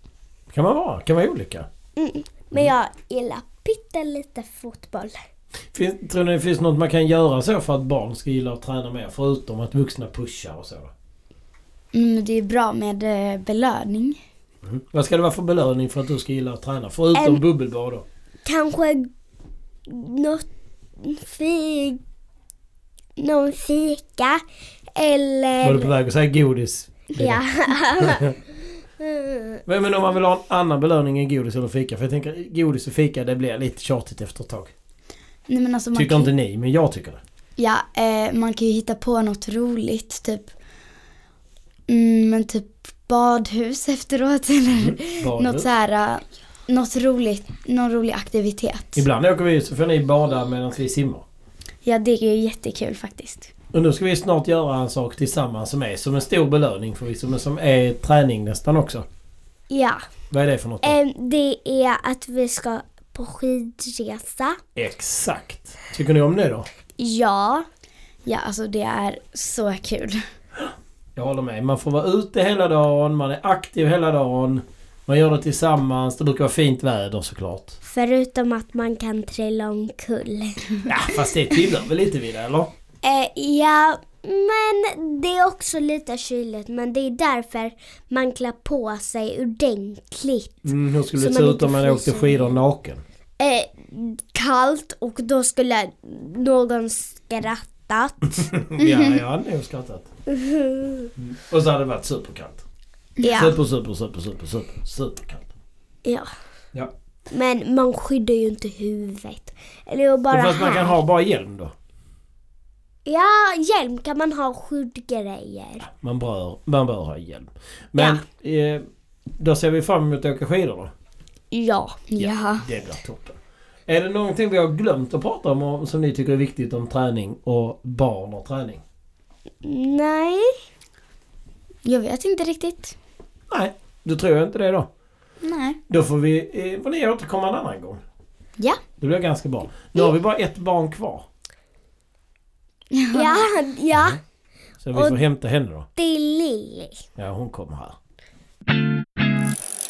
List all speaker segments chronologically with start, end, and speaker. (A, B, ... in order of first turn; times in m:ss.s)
0:00.5-0:01.7 A
0:02.0-0:05.2 B
0:05.7-0:10.9 A
0:11.9-0:14.2 C
0:14.6-0:18.0 A
0:17.1-0:17.4 B
0:18.4-0:19.1 B
0:19.9-0:20.4 B
0:21.0-0:22.0 B
0:23.2-0:24.4 B
0:24.9-0:25.9 B
0:25.6-0:27.4 A
0:27.1-0:28.4 B
0:28.0-0:28.3 A
0:29.0-0:29.6 B
0:29.6-0:34.7 A
0:35.5-0:36.3 C
0:35.9-0:37.2 A
0:37.6-0:40.5 C
0:41.9-0:49.0 C
0:44.7-0:45.7 A
0:49.0-0:51.2 A
0:51.8-0:53.5 C
0:53.7-0:59.1 A
0:59.7-1:00.0 B
1:00.3-1:01.0 A
1:00.8-1:04.6 B
1:04.8-1:06.7 A
1:07.0-1:07.6 B
1:08.2-1:10.2 C
1:10.6-1:17.8 A
1:17.8-1:20.7 B
1:20.8-1:22.7 A
1:23.0-1:32.6 B
1:30.6-1:33.0 A
1:33.4-1:38.5 B
1:38.4-1:40.1 A
1:38.8-1:39.1 C
1:40.3-1:41.1 B
1:41.2-1:42.6 A
1:43.2-1:43.5 B
1:43.3-1:45.5 A
1:46.0-1:46.3 B
1:47.3-1:51.0 B
1:50.3-1:51.7 A
1:53.0-1:55.9 B
1:55.9-2:00.9 A
1:58.0-1:58.2 B
2:01.5-2:02.0 B
2:02.1-2:02.6 C
2:02.2-2:03.4 A
2:03.9-2:08.8 A
2:09.6-2:10.5 B
2:11.8-2:12.9 C
2:13.5-2:14.9 A
2:15.4-2:15.8 C
2:15.9-2:18.0 A
2:19.0-2:21.3 A
2:22.9-2:23.4 C
2:23.1-2:24.2 B
2:24.8-2:25.9 A
2:24.9-2:25.2 B
2:26.0-2:27.0 B
2:27.2-2:28.0 A